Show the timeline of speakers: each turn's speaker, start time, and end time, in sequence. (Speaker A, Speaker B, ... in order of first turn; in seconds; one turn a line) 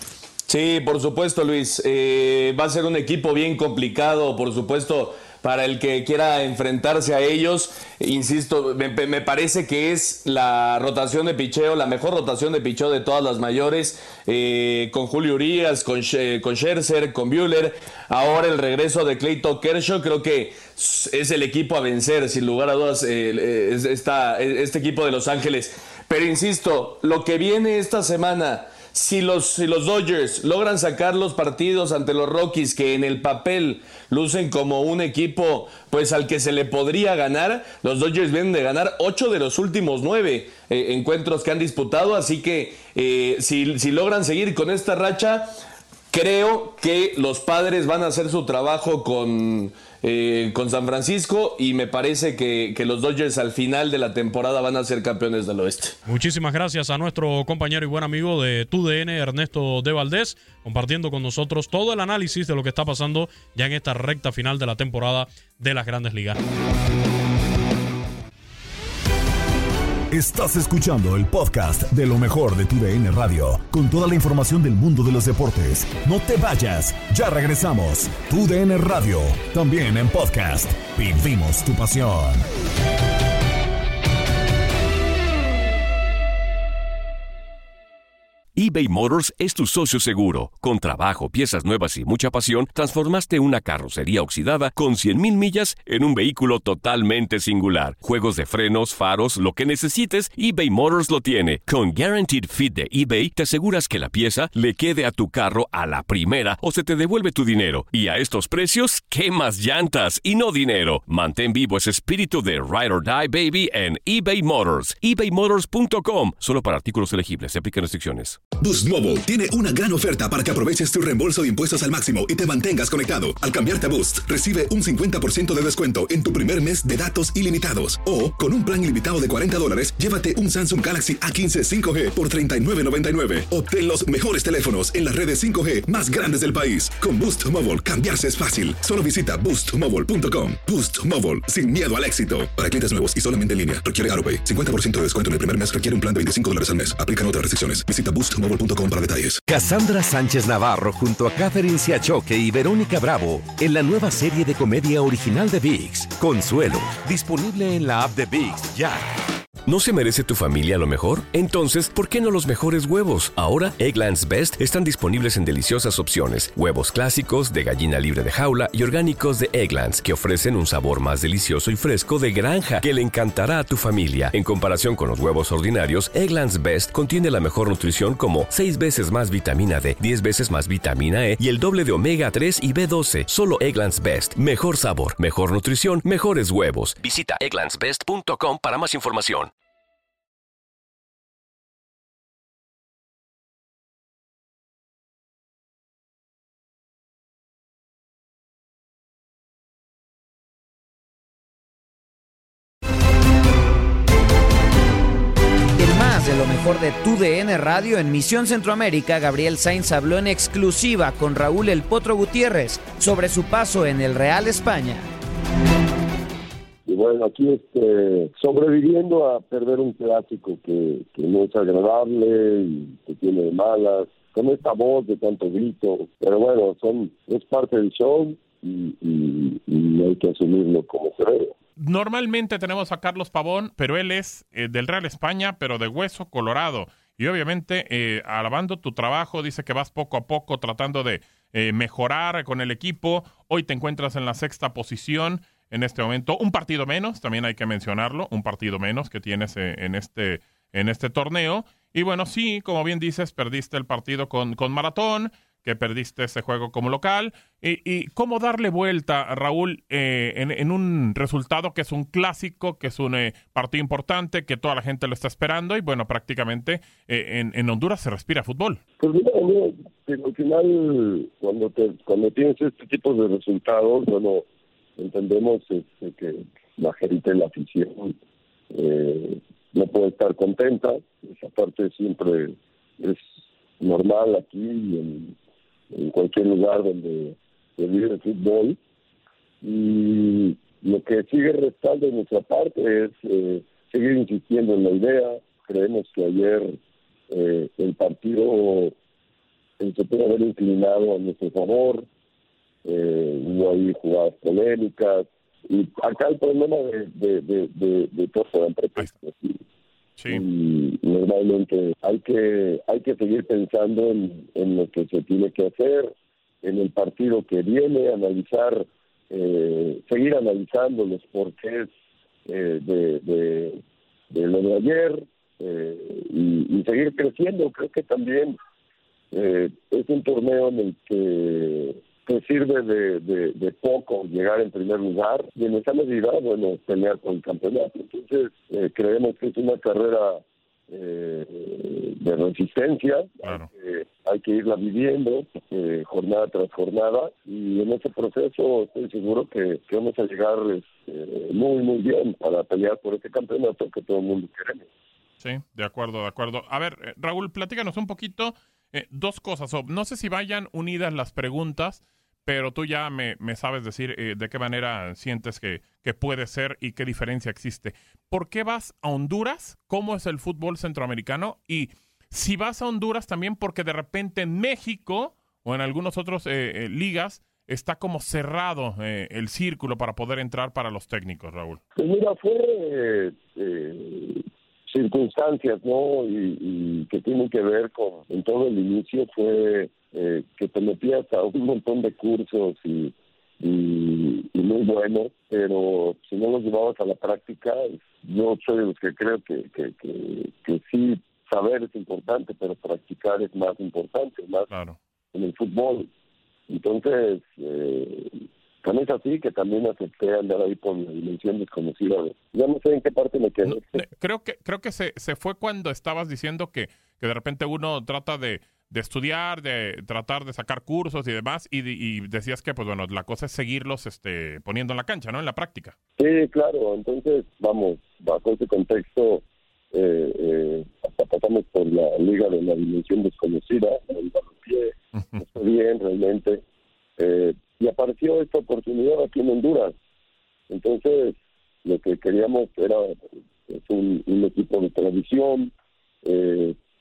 Speaker A: 0.5-45.5
Speaker A: 46.1-56.0
Speaker B: 56.1-66.4
Speaker C: 70.1-82.5
Speaker D: 88.5-118.4
Speaker E: 118.6-149.4
Speaker F: 149.5-159.0
Speaker D: 159.7-189.5
Speaker G: 205.8-215.1
Speaker H: 216.9-231.5
Speaker I: 231.8-268.8
Speaker H: 269.0-274.4
Speaker H: 275.0-278.1
Speaker H: 278.7-283.2
Speaker H: 283.8-285.4
Speaker H: 285.9-288.8
Speaker H: 289.6-296.8
Speaker H: 297.3-298.9
Speaker H: 299.8-302.1
Speaker H: 302.9-309.6
Speaker I: 310.2-310.4
Speaker H: 310.3-316.1
Speaker H: 316.6-321.9
Speaker H: 322.5-323.8
Speaker H: 324.3-328.6
Speaker H: 329.3-354.9
Speaker I: 343.4-343.7
Speaker I: 355.4-381.8
Speaker H: 382.0-404.7
Speaker I: 404.7-405.0
Speaker H: 405.3-406.1
Speaker H: 406.7-408.3
Speaker H: 408.8-414.1
Speaker I: 413.7-425.9
Speaker H: 426.2-436.6
Speaker I: 435.2-435.5
Speaker H: 437.2-439.9
Speaker H: 440.7-445.7
Speaker H: 446.2-446.8